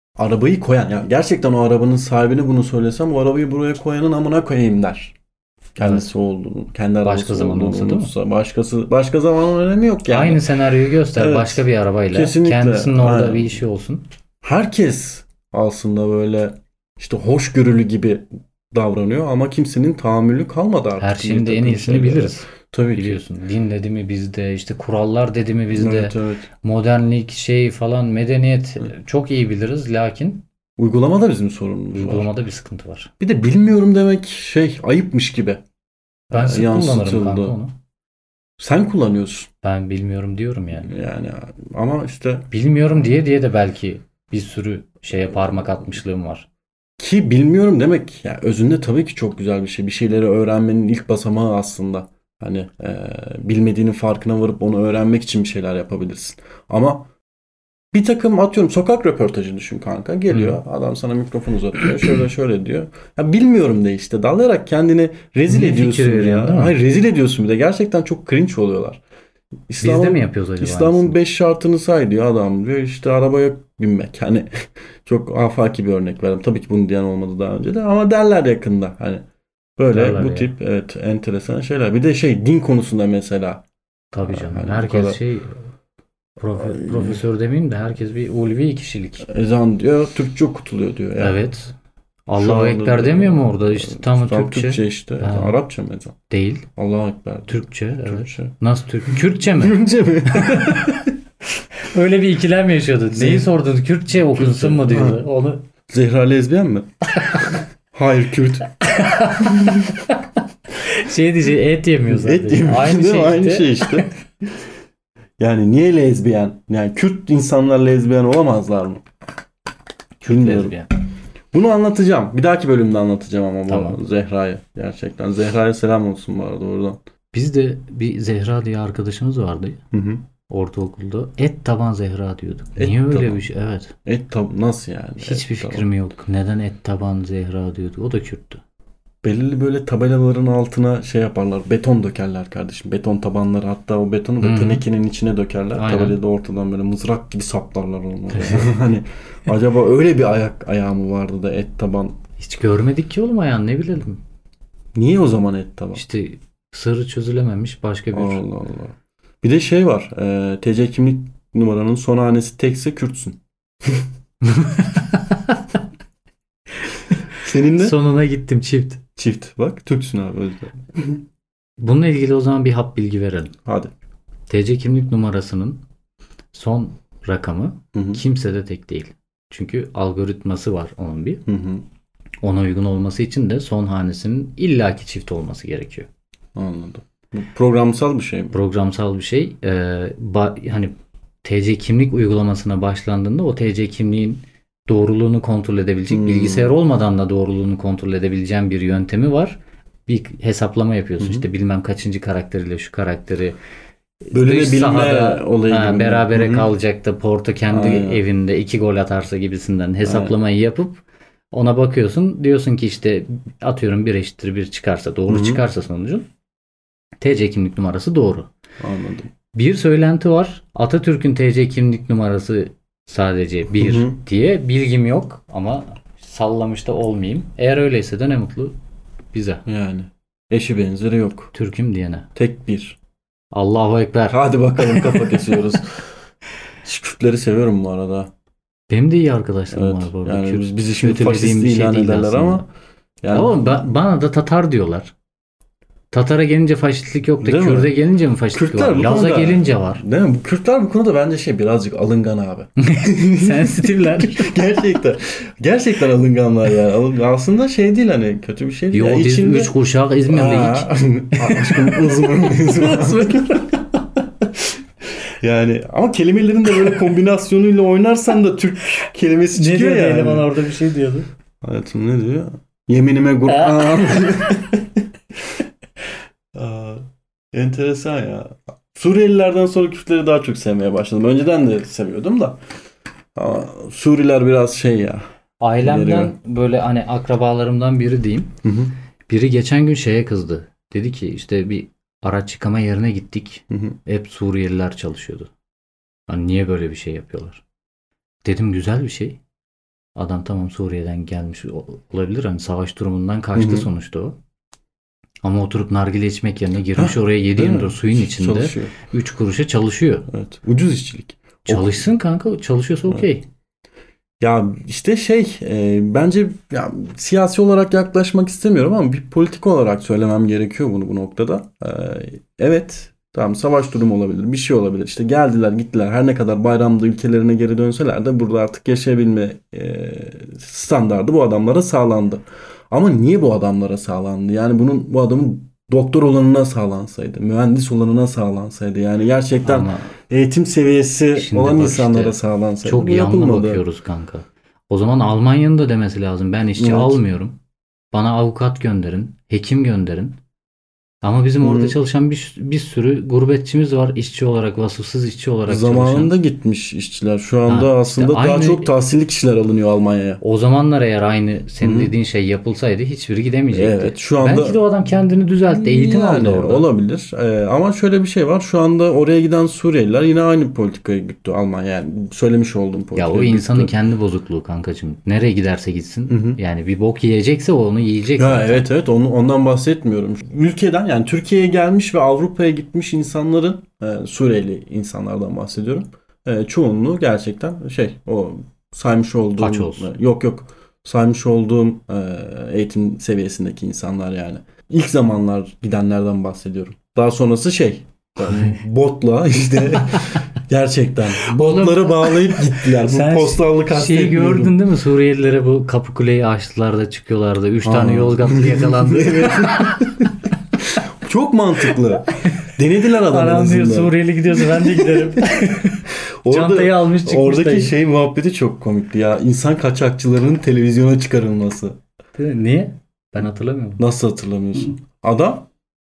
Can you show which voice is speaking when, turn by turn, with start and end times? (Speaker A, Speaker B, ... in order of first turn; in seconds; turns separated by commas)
Speaker A: 0.2-5.2, Speaker A: 5.8-10.4, Speaker B: 5.8-6.1, Speaker B: 7.0-8.1, Speaker B: 10.1-14.0, Speaker A: 11.2-13.6, Speaker A: 14.4-23.2, Speaker B: 21.0-30.4, Speaker A: 25.7-26.5, Speaker A: 30.8-32.3, Speaker B: 31.9-33.1, Speaker A: 33.2-35.6, Speaker A: 36.3-37.6, Speaker B: 36.3-37.7, Speaker A: 38.6-39.5, Speaker B: 39.6-40.9, Speaker A: 40.8-42.5, Speaker B: 42.5-46.5, Speaker A: 47.0-57.1, Speaker A: 57.9-69.0, Speaker B: 60.3-60.6, Speaker B: 65.5-66.8, Speaker A: 69.7-79.2, Speaker B: 69.8-71.2, Speaker A: 79.8-83.7, Speaker B: 79.9-80.5, Speaker B: 84.1-85.7, Speaker A: 84.2-85.2, Speaker B: 86.4-89.3, Speaker A: 86.6-87.2, Speaker A: 89.2-91.4, Speaker B: 91.2-91.8, Speaker B: 92.3-95.6, Speaker A: 92.4-96.2, Speaker B: 96.3-96.7, Speaker A: 96.8-101.1, Speaker B: 97.5-99.8, Speaker B: 100.3-101.0, Speaker B: 101.8-105.7, Speaker A: 103.1-103.5, Speaker A: 104.3-105.2, Speaker A: 105.9-108.7, Speaker B: 108.8-110.2, Speaker A: 109.5-109.9, Speaker B: 110.8-114.1, Speaker A: 112.1-114.1, Speaker A: 115.4-119.0, Speaker B: 120.2-120.9, Speaker A: 120.3-120.8, Speaker A: 121.5-127.0, Speaker B: 123.7-124.0, Speaker B: 127.3-129.8, Speaker A: 129.9-130.2, Speaker B: 130.5-133.9, Speaker A: 132.8-133.4, Speaker A: 134.1-135.9, Speaker B: 135.2-138.6, Speaker A: 139.2-152.2, Speaker B: 144.4-144.8, Speaker B: 145.8-146.2, Speaker B: 148.3-148.7, Speaker B: 152.4-154.2, Speaker A: 154.9-156.0, Speaker B: 155.9-158.4, Speaker A: 158.1-164.1, Speaker B: 164.4-165.8, Speaker B: 166.9-169.0, Speaker A: 167.3-168.0, Speaker A: 169.2-171.2, Speaker B: 171.8-173.6, Speaker A: 173.7-173.9, Speaker B: 174.5-175.8, Speaker B: 176.5-181.4, Speaker A: 177.9-178.2, Speaker A: 181.5-181.8, Speaker B: 182.4-186.1, Speaker A: 186.6-188.5, Speaker B: 188.5-203.6, Speaker A: 196.1-196.8, Speaker A: 201.2-201.5, Speaker B: 204.3-216.3, Speaker A: 204.3-206.7, Speaker A: 207.7-208.2, Speaker A: 210.1-210.3, Speaker A: 215.3-215.6, Speaker B: 217.2-218.5, Speaker A: 218.8-219.3, Speaker B: 219.5-228.8, Speaker A: 223.8-224.2, Speaker B: 229.3-229.6, Speaker A: 229.7-231.5, Speaker B: 231.5-232.3, Speaker A: 232.3-233.0, Speaker B: 233.5-235.5, Speaker A: 234.3-236.1, Speaker A: 236.8-238.3, Speaker B: 238.9-242.7, Speaker A: 239.7-242.7, Speaker A: 243.2-243.9, Speaker B: 243.3-245.1, Speaker B: 246.1-250.0, Speaker A: 247.4-247.9, Speaker A: 248.5-259.8, Speaker B: 252.8-254.5, Speaker B: 258.9-263.8, Speaker A: 260.3-264.7, Speaker A: 265.3-270.5, Speaker B: 269.5-271.3, Speaker A: 271.6-275.1, Speaker B: 273.5-274.2, Speaker A: 276.6-282.6, Speaker A: 283.4-285.2, Speaker B: 285.6-288.6, Speaker A: 285.8-286.4, Speaker A: 288.6-288.9, Speaker B: 289.3-295.5, Speaker A: 293.7-294.0, Speaker B: 296.3-297.6, Speaker B: 298.4-299.4, Speaker B: 300.2-304.4, Speaker A: 303.6-303.9, Speaker B: 305.4-310.3, Speaker A: 307.0-308.9, Speaker A: 310.3-312.1, Speaker B: 311.6-313.4, Speaker A: 314.4-343.8, Speaker B: 339.6-340.1, Speaker B: 341.3-347.6, Speaker A: 346.8-347.2, Speaker B: 348.1-350.4, Speaker B: 351.2-356.3, Speaker A: 351.6-352.0, Speaker A: 355.7-360.4, Speaker B: 357.7-358.9, Speaker B: 360.4-366.9, Speaker A: 361.8-362.1, Speaker A: 363.7-364.8, Speaker A: 365.7-373.9, Speaker B: 373.2-378.9, Speaker A: 376.3-376.6, Speaker A: 378.4-404.8, Speaker B: 389.6-390.1, Speaker B: 398.4-398.8, Speaker B: 401.4-410.1, Speaker A: 407.8-415.6, Speaker B: 412.4-412.7, Speaker B: 413.2-417.9, Speaker A: 416.1-422.0, Speaker B: 422.4-424.0, Speaker A: 424.0-425.7